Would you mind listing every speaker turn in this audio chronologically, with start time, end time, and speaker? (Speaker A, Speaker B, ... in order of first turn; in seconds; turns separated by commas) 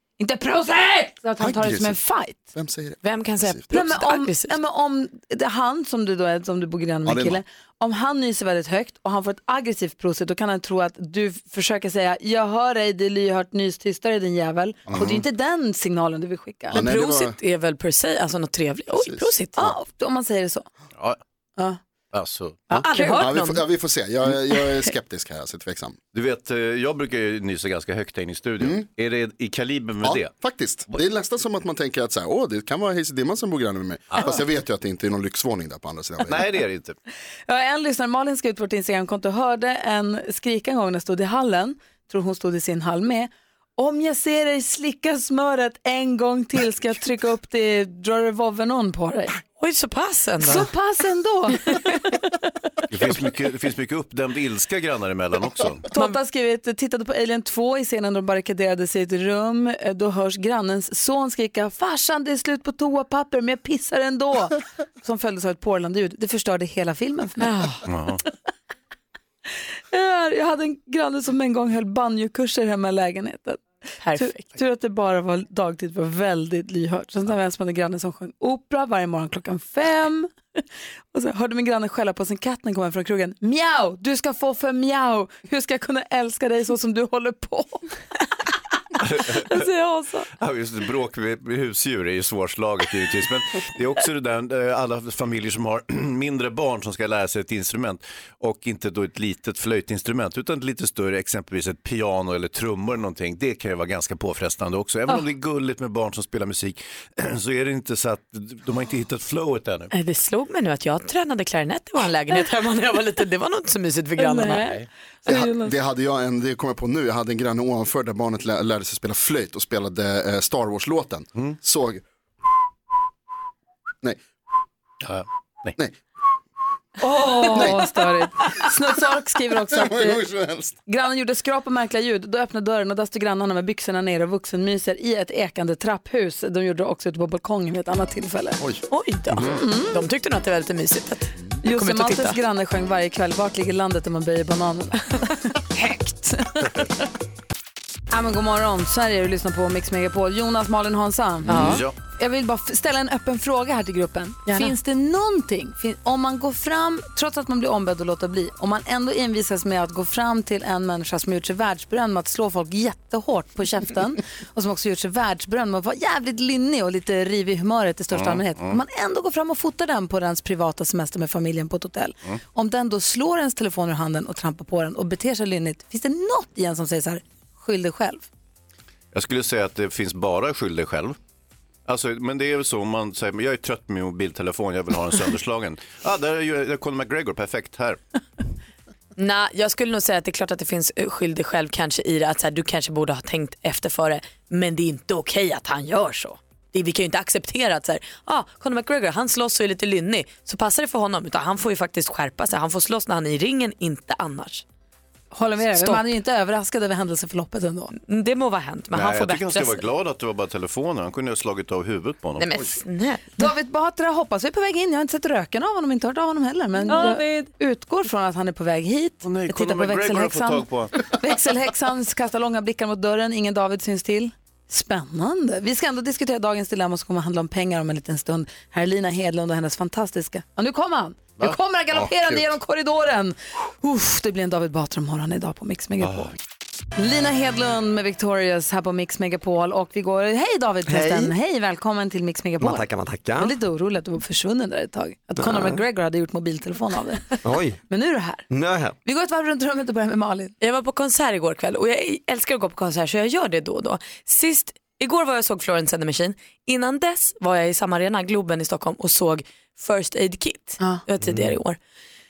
Speaker A: 0.2-2.4, Speaker B: 1.4-2.0, Speaker B: 2.5-3.6, Speaker C: 3.0-4.6, Speaker A: 3.7-16.8, Speaker B: 7.0-7.4, Speaker B: 14.9-15.2, Speaker B: 16.7-17.4, Speaker C: 16.7-19.5, Speaker B: 18.9-19.7, Speaker A: 19.6-20.7, Speaker D: 22.1-22.7, Speaker A: 22.7-23.3, Speaker C: 22.7-23.6, Speaker B: 22.8-26.0, Speaker D: 26.1-30.3, Speaker B: 28.6-28.8, Speaker B: 30.0-36.5, Speaker D: 34.1-34.4, Speaker D: 36.2-37.0, Speaker A: 37.5-49.4, Speaker C: 49.6-50.7, Speaker A: 50.4-52.0, Speaker D: 52.9-55.9, Speaker A: 55.9-67.5, Speaker C: 67.4-67.8, Speaker D: 67.8-68.2, Speaker A: 69.9-73.6, Speaker C: 74.0-74.5, Speaker A: 74.2-80.3, Speaker A: 81.1-87.9, Speaker D: 89.0-89.7, Speaker D: 90.3-109.9, Speaker C: 109.9-114.7, Speaker A: 114.2-115.7, Speaker B: 115.3-122.0, Speaker D: 125.0-125.7, Speaker A: 127.0-130.2, Speaker B: 127.5-127.9, Speaker B: 129.7-130.8, Speaker A: 130.8-138.6, Speaker C: 138.9-142.4, Speaker A: 139.4-140.0, Speaker A: 141.6-146.9, Speaker A: 148.1-178.2, Speaker D: 151.5-151.9, Speaker C: 151.5-151.8, Speaker C: 154.5-154.7, Speaker D: 168.1-168.8, Speaker D: 179.1-181.2, Speaker D: 181.8-188.0, Speaker C: 189.2-204.6, Speaker A: 205.3-207.9, Speaker C: 205.7-206.0, Speaker C: 208.0-209.8, Speaker D: 208.9-212.5, Speaker C: 212.4-213.3, Speaker A: 213.4-236.3, Speaker C: 216.9-217.5, Speaker D: 219.2-221.0, Speaker D: 236.0-236.3, Speaker A: 237.0-248.5, Speaker E: 240.9-241.3, Speaker E: 242.6-243.5, Speaker E: 245.4-245.8, Speaker E: 247.4-247.8, Speaker E: 248.5-248.9, Speaker A: 249.0-250.5, Speaker C: 250.6-261.8, Speaker E: 261.2-261.6